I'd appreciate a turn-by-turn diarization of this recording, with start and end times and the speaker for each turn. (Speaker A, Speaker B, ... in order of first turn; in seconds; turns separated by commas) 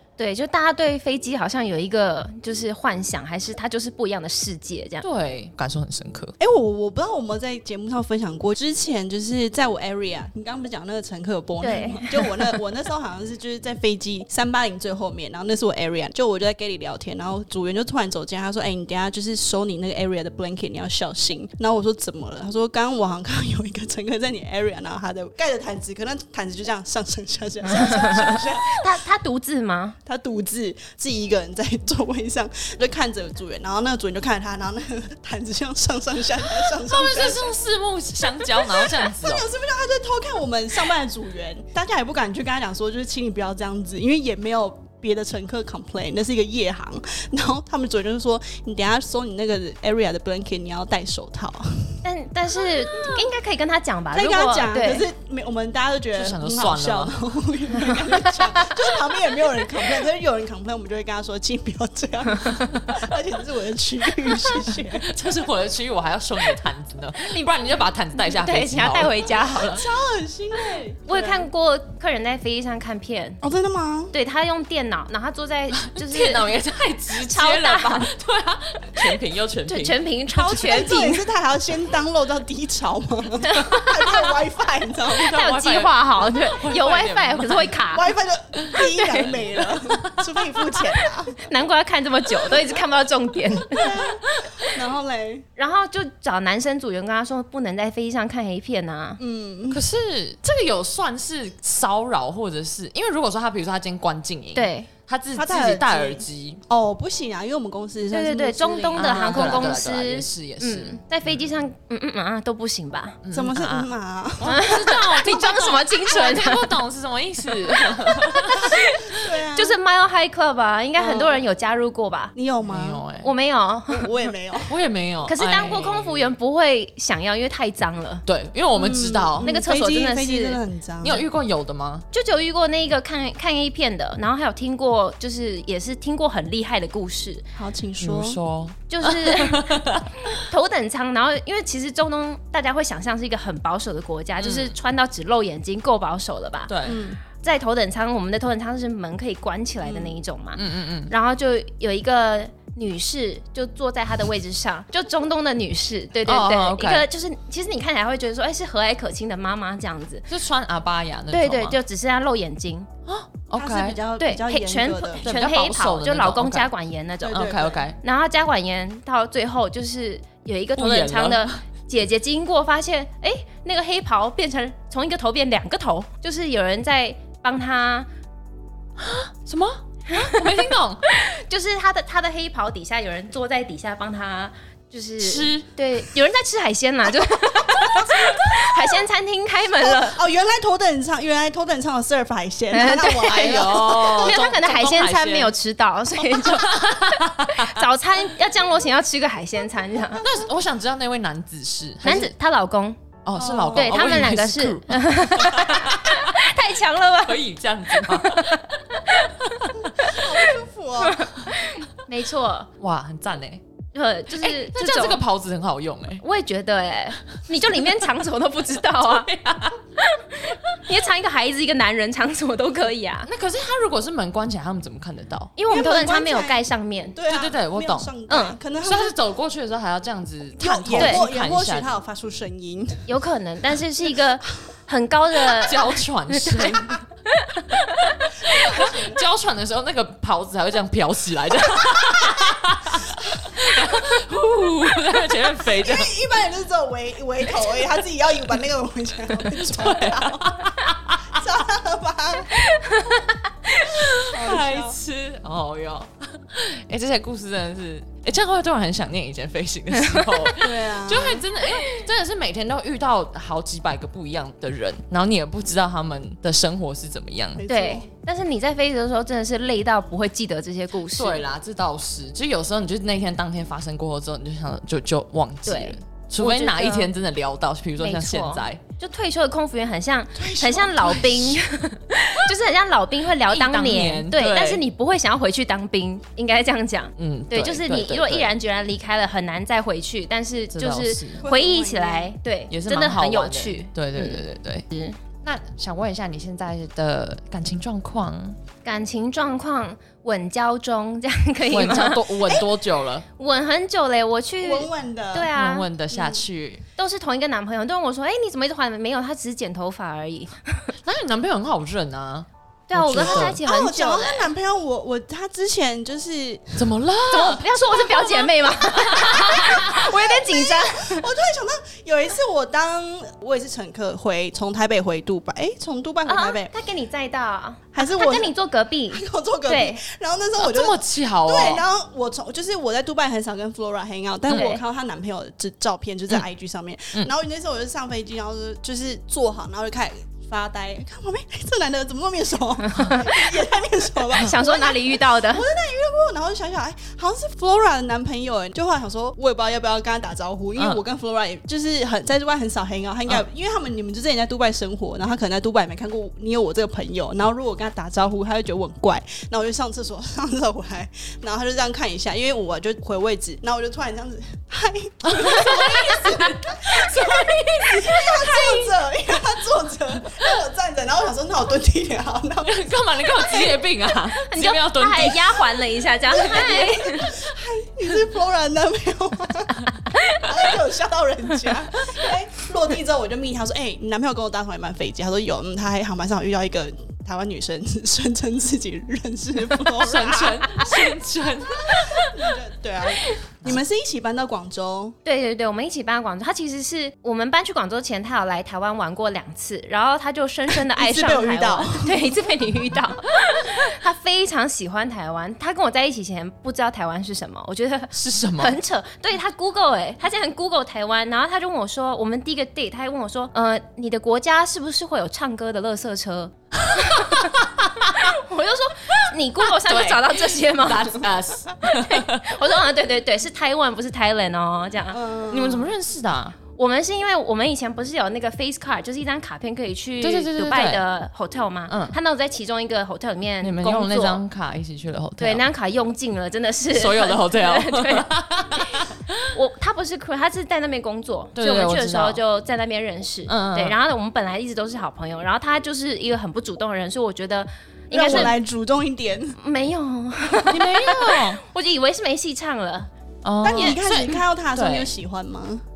Speaker A: 0.2-5.0, Speaker B: 5.0-6.3, Speaker C: 6.4-28.9, Speaker A: 11.6-12.5, Speaker A: 27.8-30.0, Speaker C: 30.1-37.5, Speaker B: 36.7-39.5, Speaker C: 38.4-52.0, Speaker A: 52.0-55.1, Speaker C: 54.1-65.1, Speaker B: 56.1-57.2, Speaker B: 65.0-69.6, Speaker A: 68.2-69.8, Speaker C: 69.5-71.5, Speaker A: 71.1-73.4, Speaker C: 73.4-74.2, Speaker A: 74.1-76.5, Speaker B: 75.8-80.0, Speaker A: 77.2-78.1, Speaker A: 79.7-81.2, Speaker C: 80.3-85.4, Speaker A: 83.4-84.4, Speaker B: 85.1-87.8, Speaker A: 85.2-88.1, Speaker C: 87.9-91.5, Speaker A: 88.8-89.4, Speaker B: 89.9-90.3, Speaker A: 91.4-94.0, Speaker C: 93.7-95.5, Speaker A: 95.6-99.2, Speaker C: 99.2-99.8, Speaker B: 99.7-106.6, Speaker A: 104.5-104.9, Speaker C: 105.4-109.8, Speaker A: 108.1-113.2, Speaker B: 109.0-111.5, Speaker B: 113.2-113.9, Speaker C: 113.3-114.9, Speaker B: 114.4-118.9, Speaker A: 114.4-116.8, Speaker A: 117.8-122.3, Speaker C: 118.5-119.8, Speaker C: 121.0-121.4, Speaker C: 122.3-123.0, Speaker B: 122.6-123.3, Speaker A: 123.2-124.1, Speaker C: 123.9-124.7, Speaker B: 124.7-126.3, Speaker A: 125.3-128.2, Speaker B: 128.3-129.5, Speaker C: 128.8-131.3, Speaker A: 129.4-130.6, Speaker B: 131.0-132.1, Speaker A: 132.1-137.4, Speaker C: 137.6-138.4, Speaker B: 138.0-140.4, Speaker A: 138.9-146.8, Speaker B: 144.4-144.8, Speaker B: 146.7-147.0, Speaker C: 146.8-147.2, Speaker A: 147.3-160.3, Speaker C: 149.8-150.2, Speaker B: 150.6-151.1, Speaker B: 156.2-157.0, Speaker B: 160.3-161.8, Speaker A: 161.3-162.9, Speaker B: 163.1-164.0, Speaker C: 163.5-165.3, Speaker A: 164.2-167.5, Speaker B: 165.2-166.7, Speaker C: 167.2-167.8, Speaker B: 167.3-168.0, Speaker A: 168.0-178.1, Speaker B: 170.8-171.6, Speaker B: 179.0-181.0, Speaker A: 180.1-190.2, Speaker B: 185.2-185.7, Speaker C: 187.8-188.3, Speaker B: 188.0-188.3, Speaker C: 189.8-194.4, Speaker A: 192.7-200.2, Speaker B: 193.2-195.5, Speaker B: 196.3-197.8, Speaker B: 200.2-202.3, Speaker A: 202.0-203.0, Speaker B: 203.2-206.4, Speaker C: 203.4-204.2, Speaker A: 203.8-209.3, Speaker B: 207.2-210.2, Speaker C: 210.0-211.3, Speaker A: 211.0-212.7, Speaker B: 212.8-213.6, Speaker A: 213.9-215.2, Speaker B: 214.3-216.2, Speaker A: 216.2-219.3, Speaker B: 219.0-219.8, Speaker A: 220.0-223.3, Speaker B: 223.3-225.5, Speaker A: 225.6-227.2, Speaker C: 225.7-229.2, Speaker B: 227.3-228.1, Speaker A: 228.3-228.6, Speaker B: 228.8-231.9, Speaker C: 230.6-233.1, Speaker A: 231.0-231.2, Speaker A: 233.1-238.6, Speaker B: 235.5-237.0, Speaker B: 238.0-246.2, Speaker C: 238.4-239.2, Speaker C: 242.0-242.5, Speaker C: 245.8-250.6, Speaker B: 249.5-251.3, Speaker C: 251.3-252.5, Speaker A: 252.6-253.9, Speaker B: 253.8-267.6, Speaker C: 254.2-255.0, Speaker A: 260.1-260.3, Speaker C: 260.6-261.4, Speaker C: 267.6-268.1, Speaker A: 267.7-271.4, Speaker B: 271.2-278.8, Speaker A: 275.7-277.1, Speaker A: 278.0-295.2, Speaker C: 280.4-281.6, Speaker B: 283.5-284.8, Speaker B: 287.2-288.5, Speaker B: 290.7-291.4, Speaker C: 291.4-292.3, Speaker B: 292.7-294.9, Speaker B: 295.4-298.6, Speaker A: 298.9-302.5, Speaker B: 301.7-303.2, Speaker A: 303.4-305.9, Speaker C: 304.6-305.5, Speaker B: 305.5-306.8, Speaker C: 306.1-306.4, Speaker A: 307.0-310.9, Speaker B: 311.0-313.6, Speaker A: 312.9-314.5, Speaker C: 313.1-316.8, Speaker B: 316.8-317.6, Speaker A: 317.3-321.3, Speaker C: 318.2-326.7, Speaker B: 318.9-319.9, Speaker A: 326.3-330.0, Speaker C: 327.9-328.5, Speaker C: 329.1-373.2, Speaker B: 330.6-331.8, Speaker A: 334.5-334.8, Speaker A: 342.9-343.6, Speaker A: 344.4-345.7, Speaker B: 365.2-368.9, Speaker B: 372.6-375.6, Speaker A: 374.3-377.3, Speaker C: 376.2-379.9, Speaker A: 380.1-380.6, Speaker C: 380.4-390.9, Speaker B: 389.9-392.4, Speaker C: 391.9-395.2, Speaker A: 395.3-417.6, Speaker C: 400.7-402.5, Speaker B: 408.1-408.8, Speaker B: 416.8-418.2, Speaker A: 418.1-421.3, Speaker B: 419.7-422.6, Speaker A: 421.8-425.2, Speaker C: 425.1-425.9, Speaker B: 425.5-426.6, Speaker A: 426.8-434.4, Speaker B: 430.2-431.0, Speaker B: 431.9-432.1, Speaker B: 433.6-435.6, Speaker A: 435.4-438.3, Speaker B: 436.9-439.5, Speaker A: 438.9-448.6, Speaker B: 441.6-442.4, Speaker B: 443.5-444.0, Speaker C: 448.1-449.6, Speaker B: 448.2-448.5, Speaker A: 449.6-453.1, Speaker B: 450.7-451.6, Speaker B: 453.4-455.1, Speaker C: 453.6-455.8, Speaker A: 453.7-454.4